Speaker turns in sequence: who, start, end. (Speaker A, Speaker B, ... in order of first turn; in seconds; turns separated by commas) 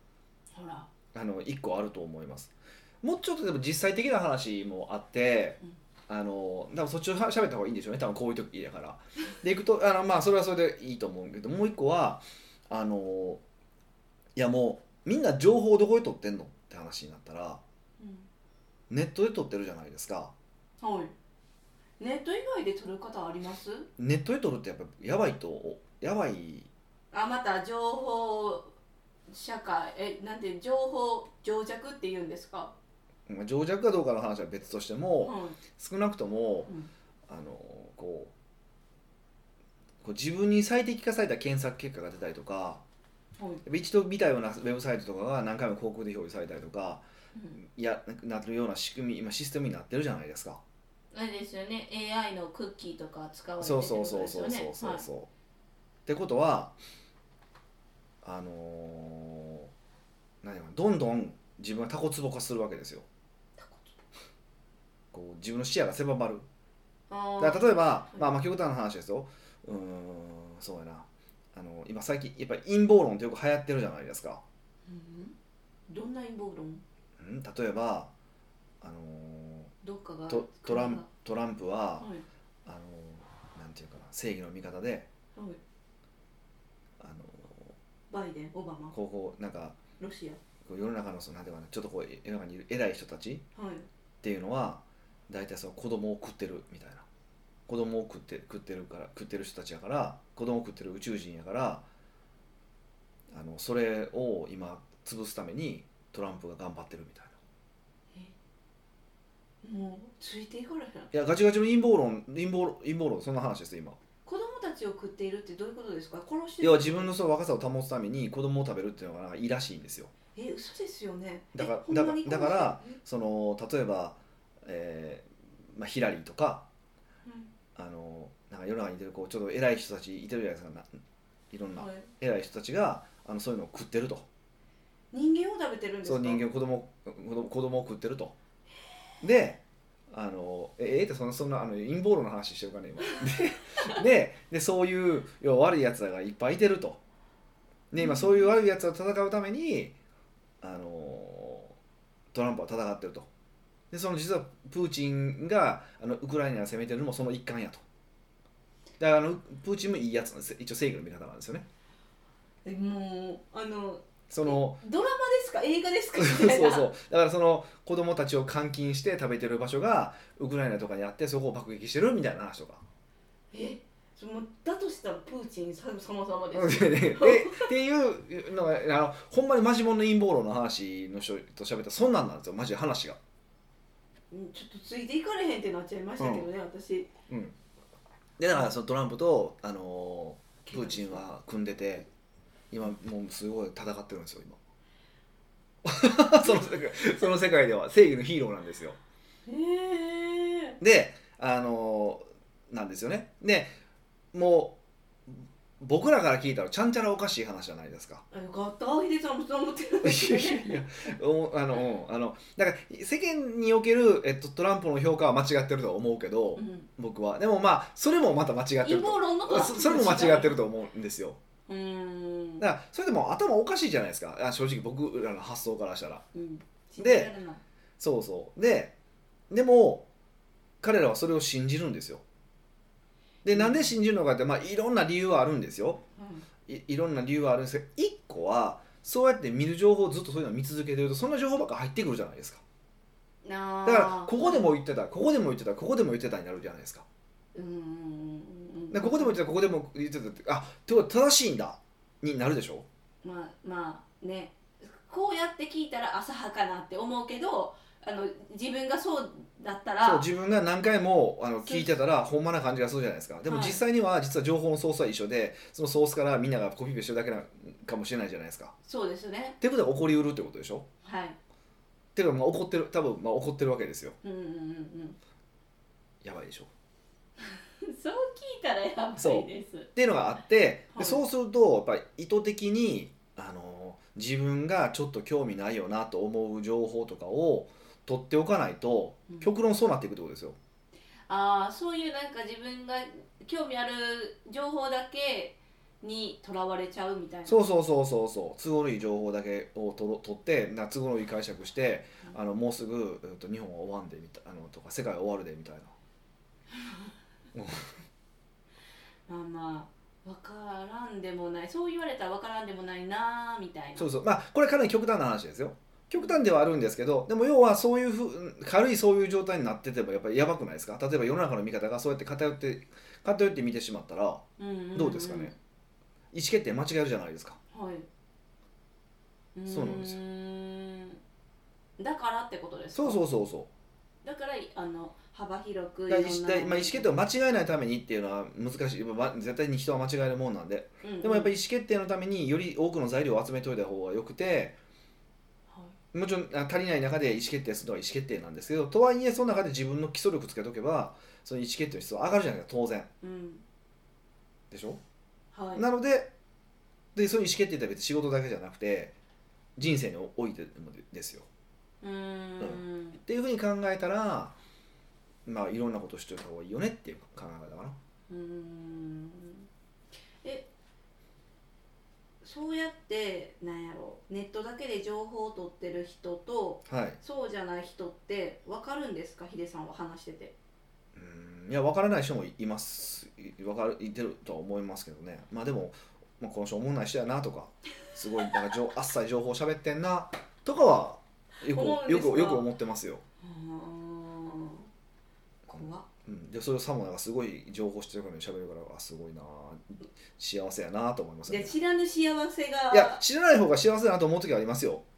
Speaker A: 0.5-0.9, Speaker B: 1.1-13.4, Speaker B: 14.3-17.6, Speaker A: 18.0-18.3, Speaker B: 18.9-20.3, Speaker A: 20.8-21.1, Speaker A: 22.0-23.9, Speaker B: 24.0-26.7, Speaker A: 27.1-28.7, Speaker A: 29.3-32.7, Speaker B: 33.3-36.7, Speaker A: 35.2-35.6, Speaker B: 37.3-38.3, Speaker B: 40.0-42.8, Speaker B: 43.6-47.0, Speaker B: 47.6-50.6, Speaker A: 51.1-55.0, Speaker B: 53.6-55.3, Speaker B: 56.0-56.8, Speaker B: 58.2-59.7, Speaker B: 60.4-63.0, Speaker A: 63.6-64.0, Speaker B: 65.1-66.5, Speaker A: 67.1-68.3, Speaker B: 67.4-74.4, Speaker A: 74.9-75.3, Speaker A: 75.9-76.8, Speaker B: 77.2-78.1, Speaker B: 78.8-79.7, Speaker A: 79.8-81.1, Speaker B: 80.3-82.1, Speaker A: 82.0-82.2, Speaker B: 82.7-85.1, Speaker A: 85.3-85.6, Speaker B: 87.0-87.7, Speaker A: 88.1-89.0, Speaker B: 88.9-89.8, Speaker A: 90.0-90.4, Speaker B: 90.6-93.4, Speaker A: 93.5-93.9, Speaker B: 94.2-97.0, Speaker B: 97.7-101.8, Speaker B: 103.3-107.3, Speaker A: 109.6-111.1, Speaker B: 111.1-114.0, Speaker A: 114.2-117.2, Speaker B: 116.6-120.1, Speaker A: 120.3-123.0, Speaker B: 121.5-126.7, Speaker A: 127.2-127.5, Speaker B: 127.8-130.9, Speaker B: 131.5-134.2, Speaker A: 131.8-132.1, Speaker A: 135.1-136.4, Speaker B: 136.0-138.3, Speaker B: 139.2-147.0, Speaker B: 147.9-149.9, Speaker A: 148.0-148.5, Speaker B: 150.6-151.7, Speaker B: 152.3-153.3, Speaker B: 153.9-157.8, Speaker B: 159.0-161.7, Speaker A: 162.6-166.9, Speaker B: 164.3-164.8, Speaker B: 166.2-172.8, Speaker A: 173.5-177.7, Speaker B: 176.5-183.2, Speaker A: 184.3-187.1, Speaker B: 186.2-186.5, Speaker B: 187.3-187.6, Speaker B: 188.4-192.1, Speaker A: 190.7-191.2, Speaker B: 192.7-194.6, Speaker B: 195.8-199.0, Speaker A: 199.4-200.8, Speaker B: 200.8-203.7, Speaker B: 204.3-208.2, Speaker A: 208.3-210.8, Speaker B: 210.0-221.4, Speaker A: 216.6-216.9, Speaker A: 218.8-220.6, Speaker A: 221.7-222.7, Speaker B: 222.6-226.2, Speaker A: 226.3-227.6, Speaker B: 227.0-227.3, Speaker B: 228.0-228.9, Speaker B: 229.5-230.1, Speaker B: 230.8-232.2, Speaker B: 233.4-236.0, Speaker A: 233.5-233.9, Speaker A: 236.2-236.5, Speaker B: 236.7-242.6, Speaker A: 243.4-244.7, Speaker B: 243.8-247.0, Speaker A: 247.5-249.4, Speaker B: 248.9-252.8, Speaker A: 253.2-260.3, Speaker B: 260.0-268.7, Speaker A: 261.6-262.0, Speaker A: 263.5-263.8, Speaker A: 268.8-269.6, Speaker B: 269.6-270.9, Speaker A: 271.0-271.4, Speaker B: 272.1-274.1, Speaker A: 274.2-275.2, Speaker B: 276.2-276.7, Speaker A: 277.4-279.9, Speaker B: 279.2-290.6, Speaker A: 280.9-281.2, Speaker A: 291.3-297.6, Speaker B: 297.4-305.9, Speaker B: 307.5-307.9, Speaker A: 309.3-314.1, Speaker B: 314.0-324.4, Speaker A: 324.6-325.6, Speaker B: 324.9-325.5, Speaker B: 326.3-327.6, Speaker A: 327.7-328.1, Speaker A: 329.5-331.2, Speaker B: 329.7-330.2, Speaker A: 332.0-333.2, Speaker B: 332.9-333.7, Speaker A: 334.2-337.1, Speaker B: 336.1-344.8, Speaker A: 341.0-341.5, Speaker A: 345.7-345.9, Speaker B: 346.1-353.1, Speaker A: 353.2-353.6, Speaker B: 354.7-355.0, Speaker A: 355.5-355.8, Speaker B: 355.7-356.3, Speaker B: 357.1-359.1, Speaker B: 359.8-361.5, Speaker A: 362.0-363.2, Speaker B: 362.6-364.5, Speaker B: 365.4-368.0, Speaker A: 368.3-369.7, Speaker A: 370.4-370.7, Speaker A: 372.4-380.5, Speaker B: 376.9-377.2, Speaker B: 381.1-393.2, Speaker A: 391.7-392.7, Speaker A: 393.4-394.9, Speaker A: 395.7-396.1, Speaker B: 395.8-401.7, Speaker A: 401.5-403.2, Speaker B: 402.9-405.0